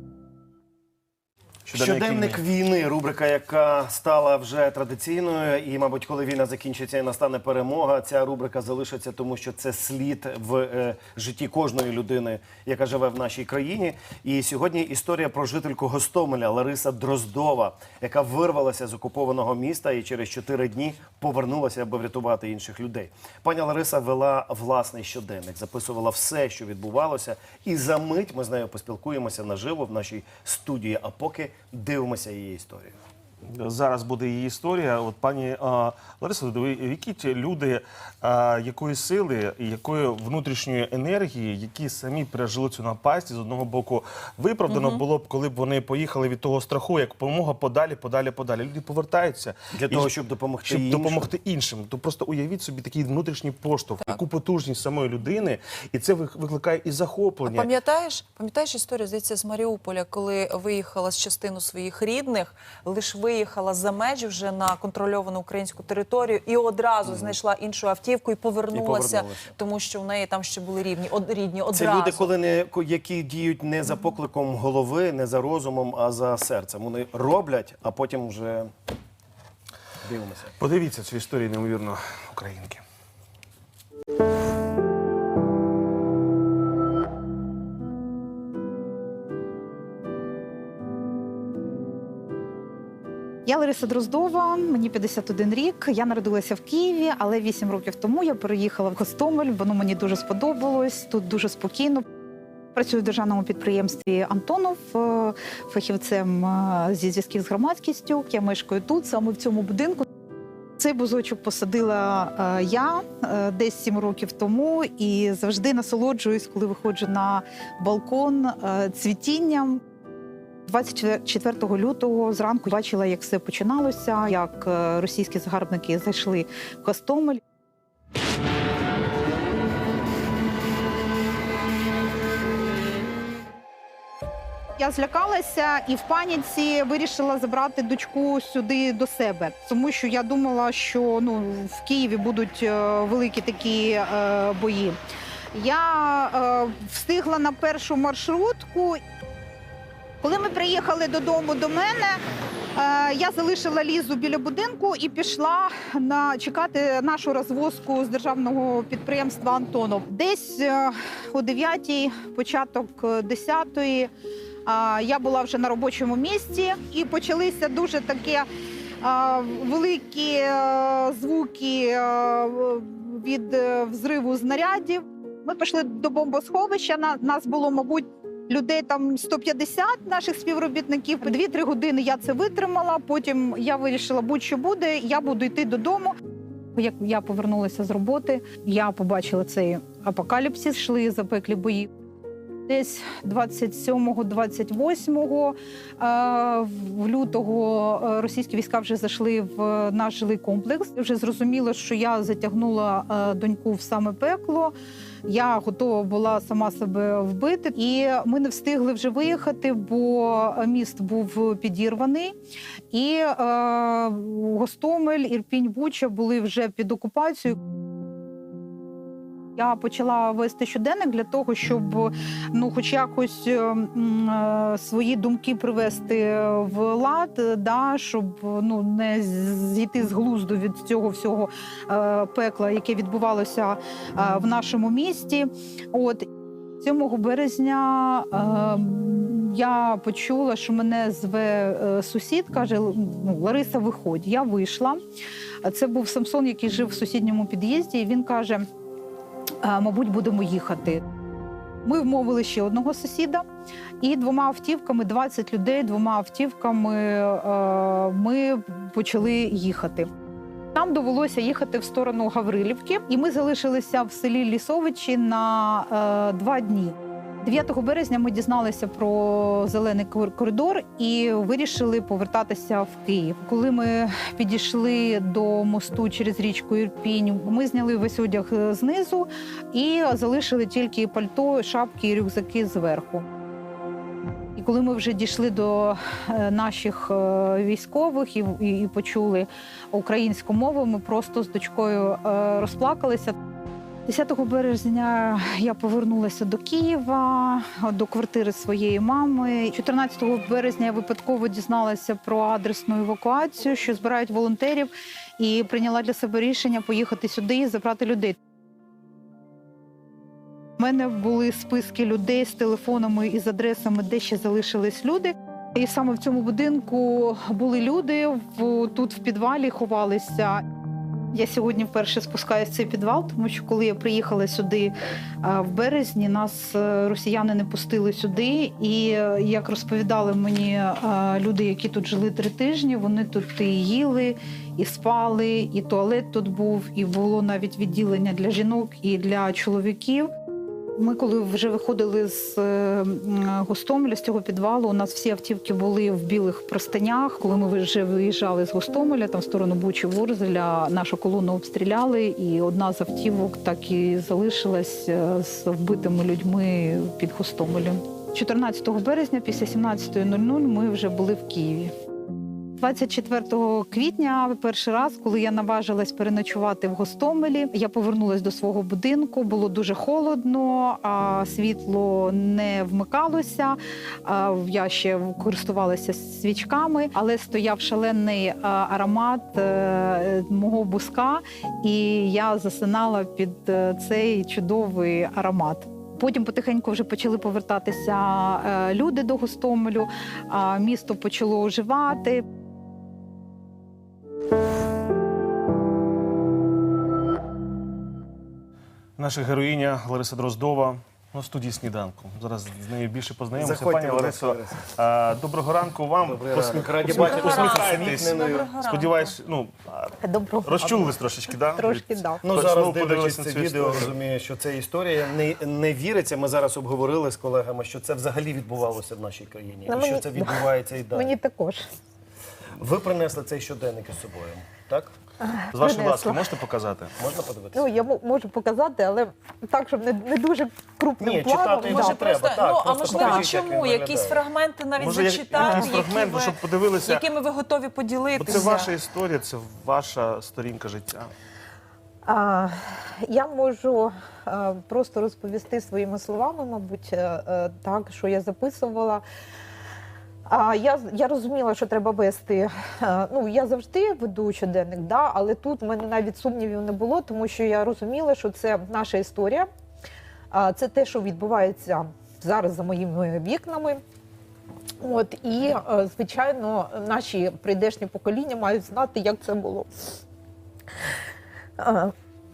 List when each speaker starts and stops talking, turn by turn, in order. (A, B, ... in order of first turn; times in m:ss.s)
0:01.6-0:02.4 A
0:01.7-0:33.0 B
0:33.5-0:50.1 A
0:44.7-0:45.0 C
0:49.7-0:51.3 B
0:50.7-0:57.7 A
0:57.4-1:12.3 C
1:07.1-1:07.4 B
1:08.7-1:09.5 B
1:11.7-1:18.7 B
1:20.0-1:20.5 B
1:20.6-1:22.8 A
1:33.4-1:42.1 D
1:42.7-1:50.1 D
1:50.8-1:59.8 D
2:00.7-2:07.4 D
2:14.8-2:25.0 D
2:25.5-2:29.0 D
2:30.2-2:32.2 D
2:32.8-2:44.1 D
2:44.7-2:48.5 D
2:49.0-3:06.2 D
3:06.7-3:11.9 D
3:12.7-3:32.4 D
3:32.9-3:37.6 D
3:39.6-3:56.3 D
3:56.8-4:05.0 D
4:05.6-4:08.7 D
4:09.6-4:11.0 D
4:11.8-4:13.5 D
4:14.0-4:20.1 D
4:20.7-4:43.3 D
4:44.6-4:53.4 D
4:54.1-5:08.4 D
5:10.8-5:20.6 D
5:21.3-5:40.3 D
5:41.0-6:01.9 D
6:02.8-6:32.5 D
6:39.2-6:54.2 A
6:43.6-6:44.9 B
6:46.2-6:48.7 B
6:47.1-6:49.4 C
6:50.2-6:51.2 E
6:51.7-6:52.4 E
6:52.4-7:01.3 B
6:59.9-7:01.8 E
7:02.8-7:05.1 B
7:05.4-7:06.5 E
7:05.7-7:07.1 A
7:07.2-7:07.8 B
7:07.7-7:12.3 E
7:11.2-7:14.4 B
7:11.8-7:18.9 C
7:13.1-7:13.5 E
7:15.0-7:17.2 A
7:18.4-7:21.3 A
7:22.2-7:29.2 E
7:30.5-7:39.7 E
7:40.5-7:44.0 E
7:45.0-7:49.9 E
7:51.8-7:52.1 E